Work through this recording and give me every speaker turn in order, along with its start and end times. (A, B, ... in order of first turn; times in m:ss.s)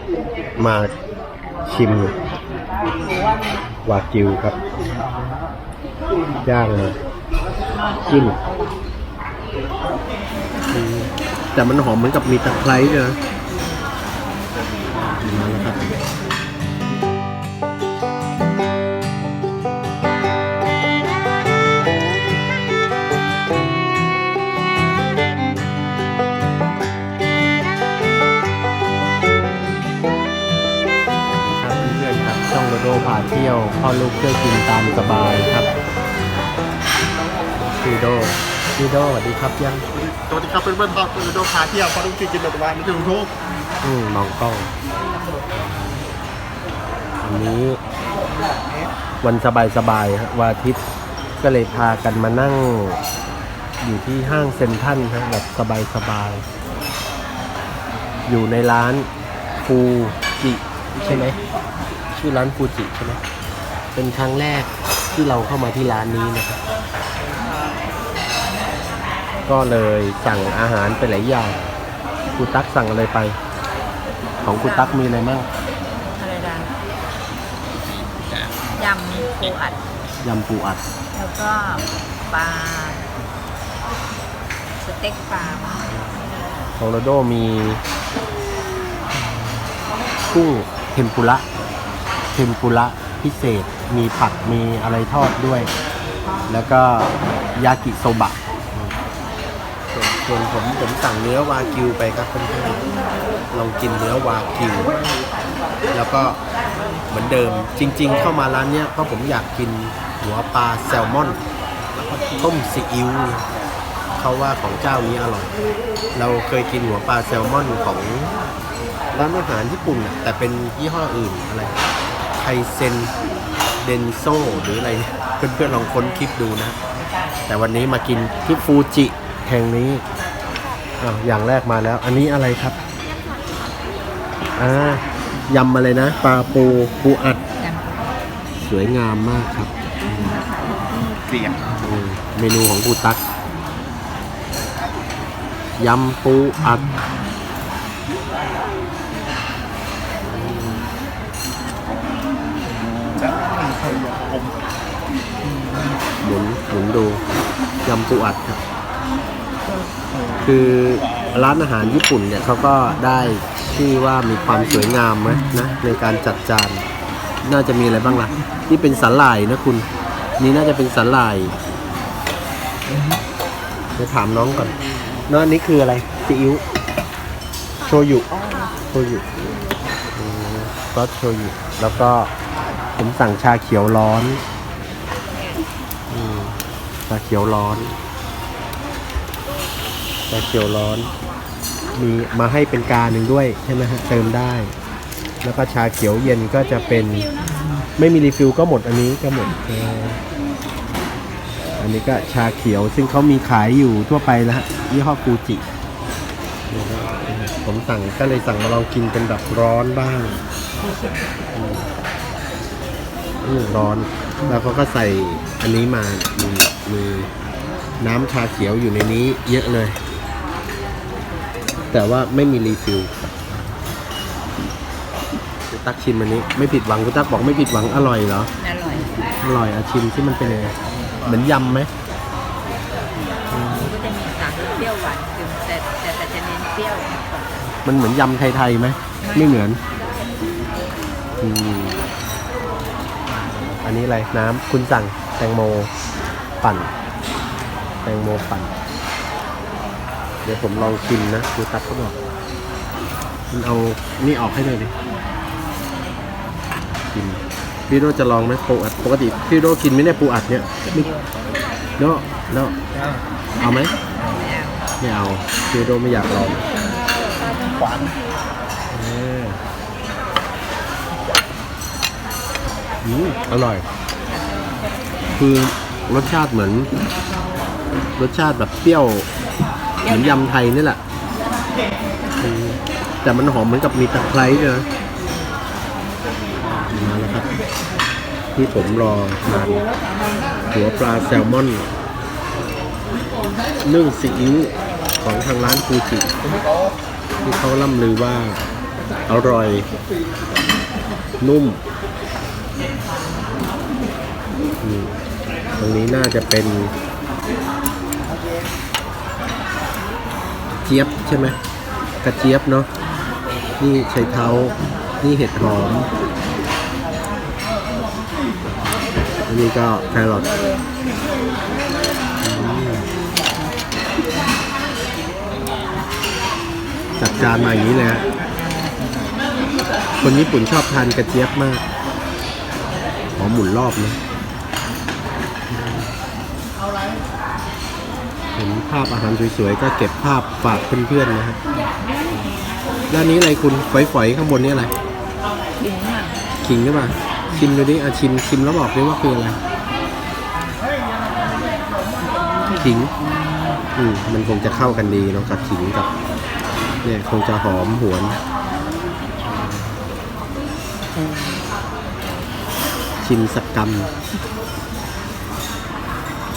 0:00.6-0:00.9 A
0:01.6-0:02.1 A
0:03.8-0:04.6 A
0:06.4-0:07.0 A
0:08.0-0:08.4 A
0:10.7-0:13.2 A
0:15.2-0:15.8 A
0:31.4-0:35.7 A
0:37.7-0:39.8 A
0:39.9-0:43.3 B
0:43.8-0:44.7 A
0:45.5-0:46.0 A
0:47.2-0:47.8 A
0:49.2-0:50.8 A
0:51.4-0:53.0 A
0:53.8-0:56.4 A
0:58.3-0:59.1 A
0:59.6-1:01.4 A
1:02.1-1:03.2 A
1:03.9-1:06.6 A
1:09.5-1:11.7 A
1:12.4-1:13.4 A
1:14.4-1:15.5 A
1:14.6-1:15.0 C
1:16.2-1:16.7 C
1:18.7-1:19.8 C
1:20.2-1:20.8 A
1:21.1-1:23.1 C
1:24.8-1:26.0 C
1:26.8-1:27.8 A
1:30.3-1:31.4 A
1:32.3-1:35.7 A
1:36.5-1:38.9 A
1:39.9-1:42.8 A
1:43.5-1:44.9 A
1:45.9-1:46.4 A
1:47.1-1:51.4 A
1:52.3-1:53.5 A
1:54.2-1:55.5 A
1:56.1-1:58.3 A
1:59.1-2:01.7 A
2:02.4-2:03.1 A
2:03.8-2:06.8 A
2:07.5-2:10.0 A
2:11.0-2:12.8 A
2:14.6-2:17.4 A
2:17.6-2:18.1 C
2:18.6-2:20.4 A
2:20.5-2:21.2 C
2:21.8-2:23.2 A
2:25.8-2:26.9 A
2:30.3-2:30.9 A
2:33.5-2:34.3 B
2:36.2-2:37.2 A
2:37.8-2:38.6 A
2:40.4-2:46.8 A
2:47.4-2:49.8 A
2:50.4-2:51.5 A
2:54.0-2:54.7 A
2:55.3-2:56.6 A
2:57.8-2:59.2 A
3:00.2-3:02.3 A
3:03.0-3:04.4 A
3:05.3-3:05.6 C
3:06.1-3:07.9 A
3:10.3-3:11.1 A
3:11.9-3:14.7 A
3:15.4-3:17.3 A
3:18.0-3:20.2 A
3:21.8-3:25.6 A
3:26.7-3:30.4 A
3:31.5-3:31.9 A
3:33.4-3:37.3 A
3:38.0-3:40.0 A
3:41.9-3:43.1 A
3:45.7-3:48.5 A
3:48.6-3:49.1 C
3:49.4-3:51.9 A
3:53.5-3:53.9 A
3:53.8-3:57.6 C
3:57.8-3:59.8 A
3:59.2-3:59.6 C
4:01.4-4:02.0 A
4:03.4-4:05.9 A
4:06.6-4:06.9 A
4:08.0-4:08.7 A
4:10.4-4:12.1 A
4:13.5-4:14.9 A
4:17.1-4:21.1 A
4:20.8-4:21.3 C
4:22.0-4:22.8 A
4:23.6-4:23.9 A
4:23.6-4:24.8 C
4:25.0-4:26.6 A
4:27.1-4:28.1 C
4:28.9-4:29.6 A
4:33.0-4:33.8 A
4:35.4-4:36.9 A
4:38.2-4:39.3 A
4:40.0-4:41.0 A
4:42.4-4:44.8 A
4:46.9-4:47.5 A
4:48.5-4:49.8 A
4:50.7-4:51.9 A
4:53.8-4:56.3 A
4:57.4-4:58.6 A
4:59.3-4:59.9 A
5:01.4-5:01.8 A
5:04.8-5:05.1 A
5:05.8-5:06.9 A
5:10.8-5:11.6 A
5:12.2-5:12.9 A
5:13.8-5:16.1 A
5:19.5-5:20.5 A
5:22.4-5:23.1 A
5:27.2-5:28.2 A
5:30.2-5:31.8 A
5:33.4-5:34.2 A
5:35.7-5:36.1 A
5:38.6-5:41.6 A
5:43.1-5:44.9 A
5:45.8-5:46.4 C
5:46.6-5:49.6 A
5:52.7-5:53.1 A
5:54.0-5:56.1 A
5:57.0-5:58.4 A
5:59.4-5:59.9 A
6:03.2-6:04.1 A